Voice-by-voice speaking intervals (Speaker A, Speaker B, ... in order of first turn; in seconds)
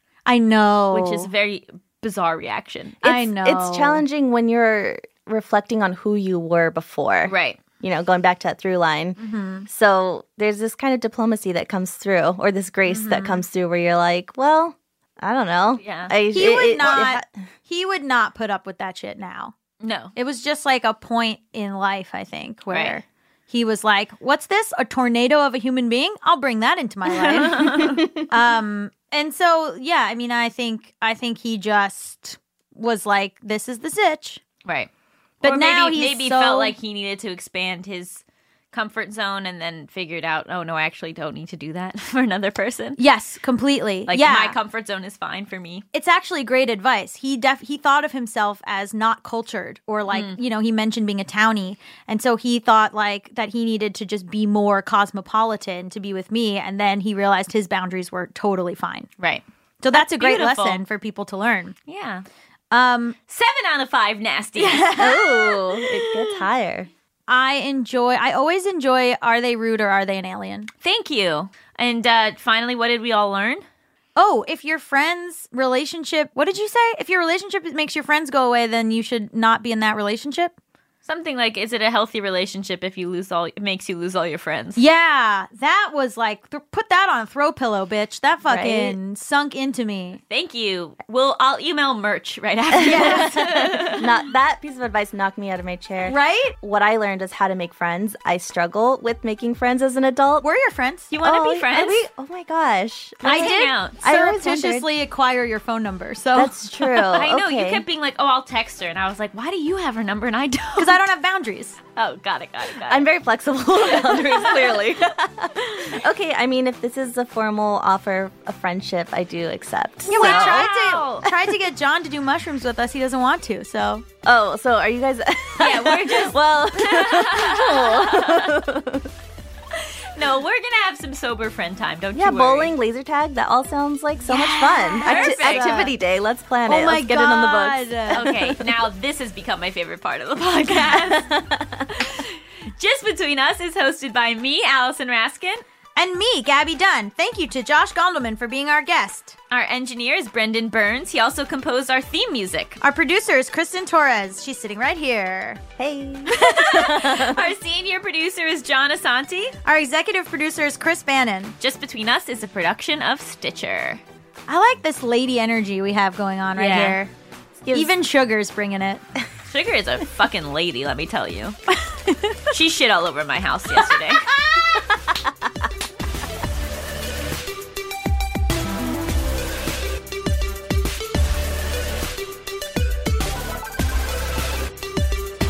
Speaker A: 0.3-1.3, 3.0-4.0, 9.2-9.7, 12.9-13.4, 16.3-19.6, 20.1-34.4, 35.4-36.8, 43.0-44.6, 45.9-59.1, 59.8-61.8, 62.7-63.2, 64.6-66.1, 67.3-70.7, 74.2-80.5, 84.8-90.2, 92.8-94.0, 96.0-96.5, 100.4-101.1, 103.2-107.0, 110.8-111.8, 120.1-124.1, 134.3-135.9, 136.7-138.5, 146.0-149.4, 152.8-155.6, 159.7-161.6, 164.5-167.1, 167.7-169.0
Speaker B: 0.9-3.0, 7.3-7.6, 15.8-17.1, 19.8-20.1, 22.7-23.0, 27.1-28.1, 35.4-43.0, 44.1-45.8, 50.1-50.4, 59.2-60.8, 61.9-62.2, 63.3-64.9, 70.8-73.7, 81.0-84.8, 90.3-94.1, 101.1-102.0, 103.2-104.0, 107.1-111.1, 112.0-113.1, 113.8-115.0, 115.6-115.9, 120.1-121.2, 125.6-128.7, 129.7-132.8, 134.7-135.9, 138.1-141.3, 141.9-145.6, 149.5-152.8, 156.3-159.5, 161.6-164.0, 166.6-167.0, 169.5-171.6, 172.5-174.3
Speaker C: 3.0-17.3, 27.5-28.2, 65.0-66.9, 88.5-89.0, 92.8-93.3, 93.9-100.5, 101.2-104.9, 106.3-107.8, 112.8-120.7, 124.2-129.1, 132.2-138.7, 140.8-142.1, 155.8-157.5, 167.6-167.9, 174.7-175.1